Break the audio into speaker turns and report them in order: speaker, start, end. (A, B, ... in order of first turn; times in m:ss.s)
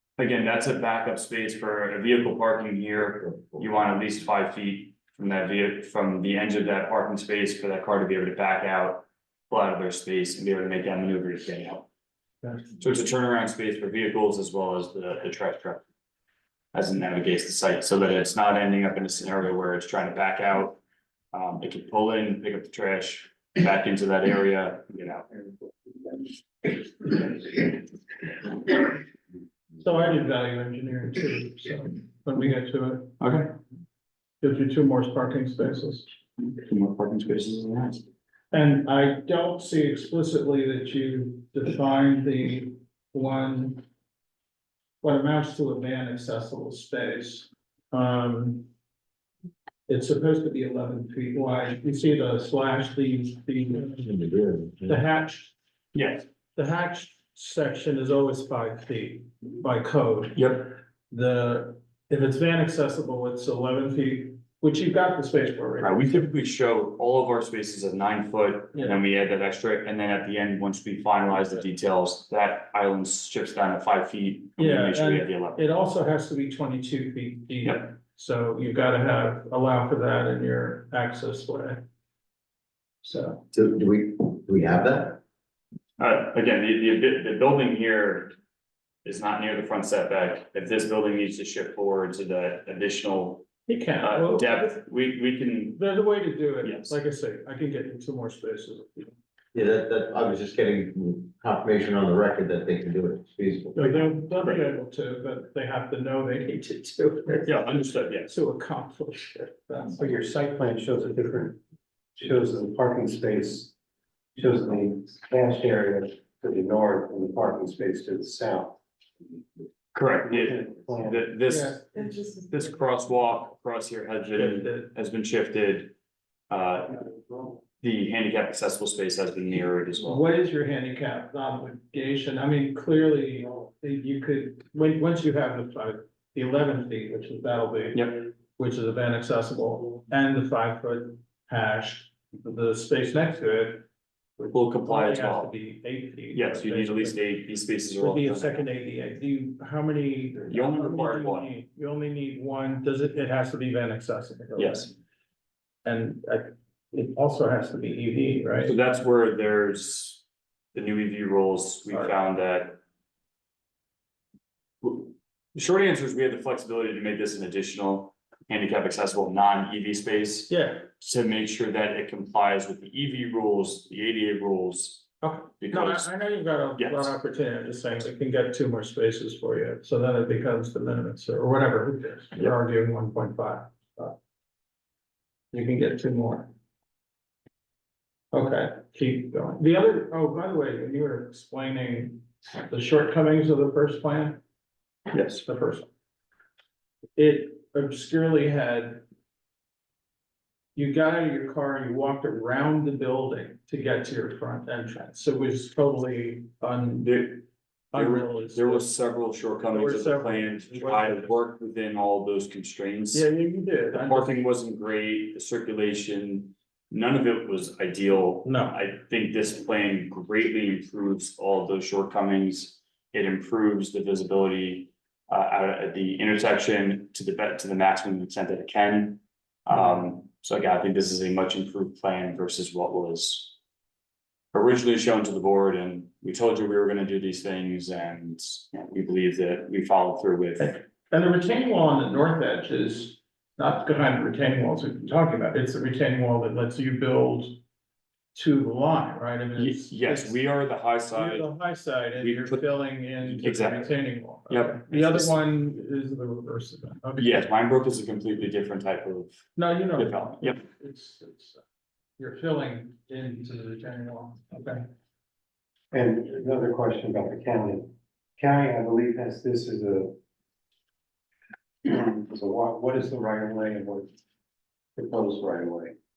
0:00.2-0:11.9 A
0:12.8-0:15.8 A
0:16.7-0:20.8 A
0:21.3-0:25.3 A
0:29.8-0:33.2 B
0:33.2-0:33.5 A
0:34.4-0:36.0 B
0:36.5-0:38.0 A
0:38.5-0:43.8 B
0:45.0-0:48.7 B
0:49.9-0:54.0 B
0:53.7-0:55.0 C
0:54.9-0:55.5 B
0:55.9-0:56.2 A
0:56.6-1:06.3 B
1:00.4-1:00.7 A
1:05.8-1:15.6 A
1:08.7-1:09.0 B
1:14.6-1:21.8 B
1:23.0-1:23.4 B
1:23.5-1:25.2 C
1:26.0-1:28.3 A
1:29.0-1:33.5 A
1:33.7-1:34.8 B
1:34.0-1:35.8 A
1:35.8-1:39.1 B
1:36.6-1:36.9 A
1:39.5-1:43.8 C
1:43.7-1:50.0 B
1:44.4-1:44.7 A
1:47.4-1:48.3 A
1:50.0-1:51.6 D
1:52.2-1:53.7 D
1:54.4-1:58.8 D
1:59.9-2:05.9 A
2:00.3-2:01.3 D
2:01.5-2:02.1 B
2:04.3-2:04.9 B
2:06.5-2:07.0 A
2:07.8-2:10.2 A
2:10.0-2:23.8 B
2:17.9-2:18.2 A
2:24.4-2:27.2 B
2:24.5-2:25.5 A
2:26.3-2:28.6 A
2:28.0-2:34.9 B
2:30.5-2:31.5 A
2:34.6-2:34.9 A
2:35.8-2:38.8 B
2:38.6-2:42.8 A
2:44.8-2:55.1 A
2:50.5-2:50.9 B
2:55.2-3:04.2 B
2:55.6-2:56.1 A
2:56.8-2:57.2 A
3:05.5-3:06.5 B
3:08.3-3:14.4 B
3:15.1-3:15.4 A
3:15.4-3:15.9 B
3:17.2-3:19.0 B
3:20.7-3:27.3 B
3:27.0-3:33.3 A
3:27.9-3:28.9 B
3:29.7-3:31.4 B
3:33.1-3:34.4 B
3:33.9-3:53.5 A
3:38.4-3:38.7 B
3:54.5-4:00.7 A
4:00.6-4:07.6 B
4:08.3-4:10.4 B
4:09.6-4:11.5 A
4:11.1-4:17.4 B
4:12.2-4:12.6 A
4:13.2-4:15.4 A
4:17.2-4:19.4 A
4:19.6-4:21.6 B
4:20.0-4:20.6 A
4:22.2-4:24.8 B
4:25.9-4:30.1 D
4:31.8-4:34.1 D
4:35.0-4:35.9 D